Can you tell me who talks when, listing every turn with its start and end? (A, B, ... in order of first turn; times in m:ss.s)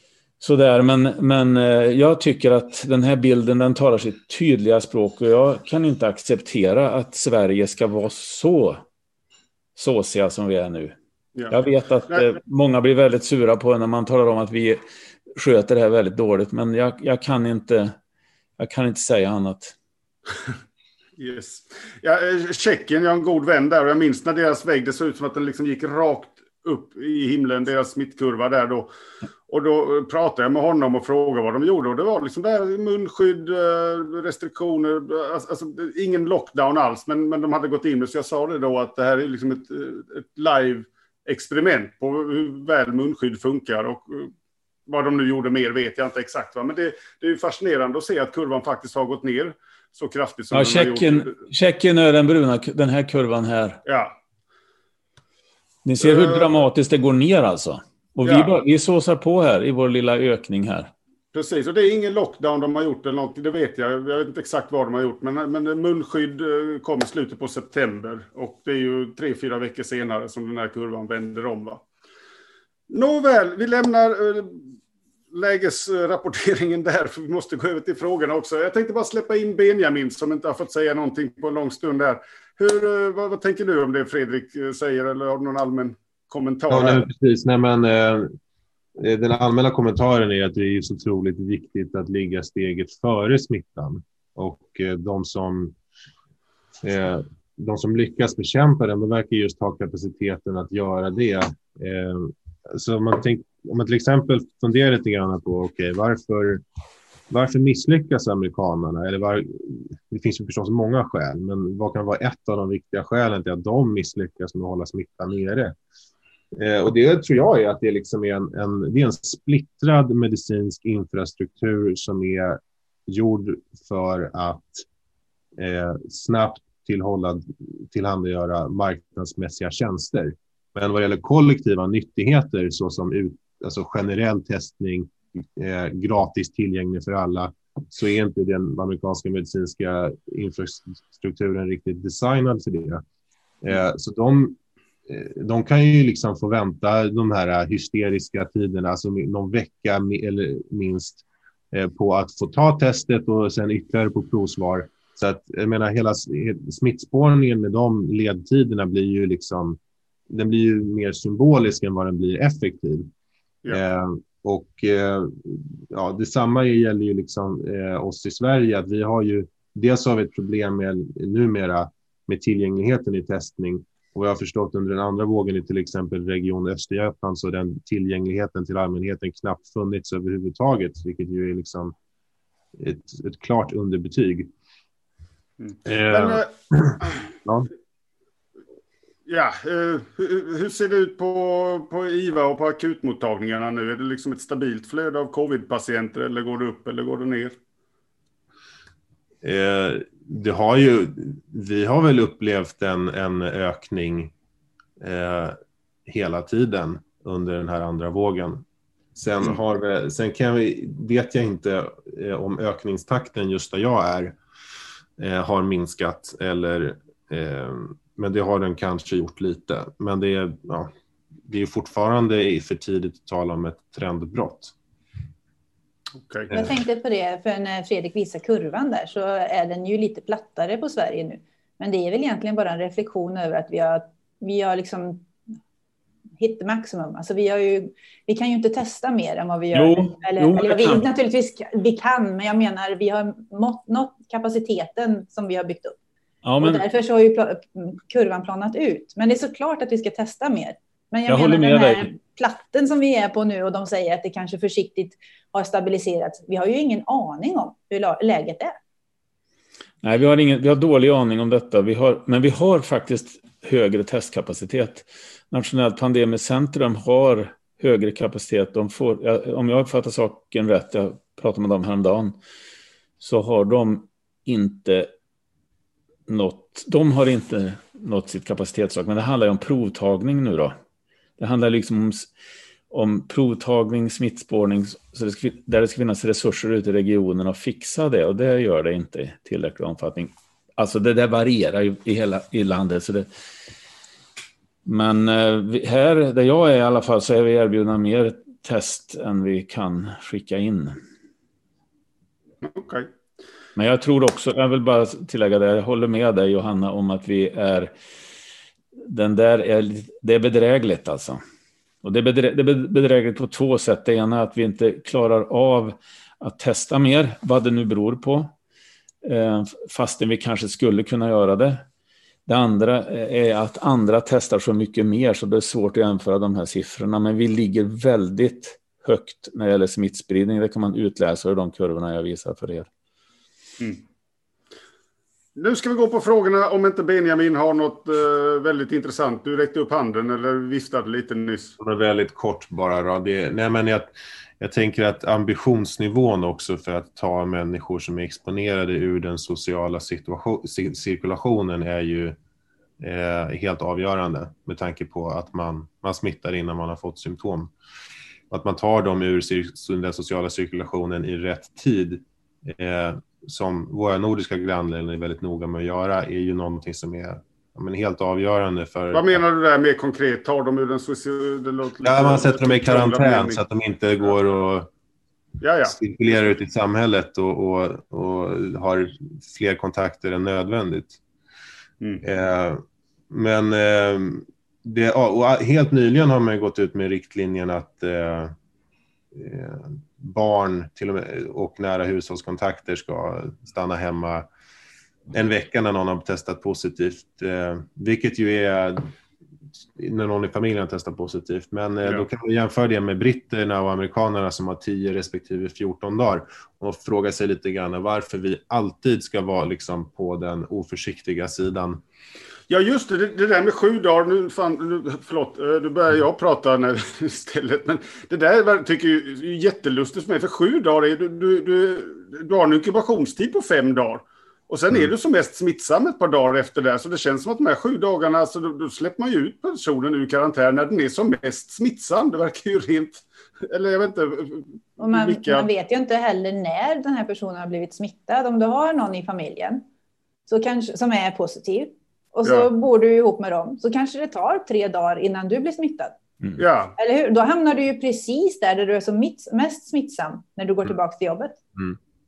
0:00.4-0:08.8 A
0:09.8-0:11.0 A
0:11.5-0:14.8 A
0:15.3-0:17.9 A
0:18.6-0:19.8 A
0:21.2-0:28.9 B
0:29.5-0:44.3 B
0:44.9-0:51.3 B
0:50.5-0:53.8 A
0:53.8-0:54.1 B
0:55.8-1:00.9 A
0:56.0-0:56.6 B
0:58.2-0:58.5 B
1:01.3-1:11.8 B
1:12.9-1:14.7 B
1:15.3-1:27.1 B
1:26.7-1:28.3 C
1:29.0-1:35.8 C
1:36.8-1:46.6 C
1:47.3-1:55.8 C
1:56.6-2:04.9 C
2:05.6-2:23.0 C
2:23.6-2:43.1 C
2:43.7-3:01.9 C
3:02.8-3:04.5 C
3:05.6-3:06.5 B
3:05.8-3:07.7 C
3:09.3-3:17.6 B
3:19.4-3:24.3 C
3:25.0-3:34.4 C
3:35.2-3:40.9 C
3:41.5-3:44.7 C
3:46.2-3:46.5 B
3:46.5-3:55.3 D
3:56.4-4:06.0 D
3:59.7-4:01.0 A
4:06.4-4:06.8 A
4:06.6-4:18.8 D
4:11.3-4:12.1 A
4:20.0-4:32.4 A
4:33.2-4:35.1 A
4:36.3-4:40.8 A
4:41.4-4:42.3 A
4:42.9-4:53.3 A
4:54.8-5:01.0 A
5:02.6-5:03.1 B
5:03.8-5:07.9 A
5:09.0-5:11.4 A
5:12.0-5:18.5 A
5:19.2-5:21.8 A
5:22.5-5:32.9 A
5:35.6-5:41.8 B
5:41.8-5:52.4 C
5:53.0-5:57.7 C
5:58.5-6:09.4 C
6:09.1-6:13.6 B
6:12.0-6:14.9 C
6:15.6-6:16.5 B
6:15.9-6:21.2 C
6:22.2-6:28.6 C
6:29.3-6:34.5 C
6:35.3-6:39.1 C
6:40.0-6:52.0 C
6:52.7-7:15.7 B
7:15.0-7:19.8 D
7:20.5-7:26.2 D
7:26.6-7:26.9 B
7:27.0-7:31.6 D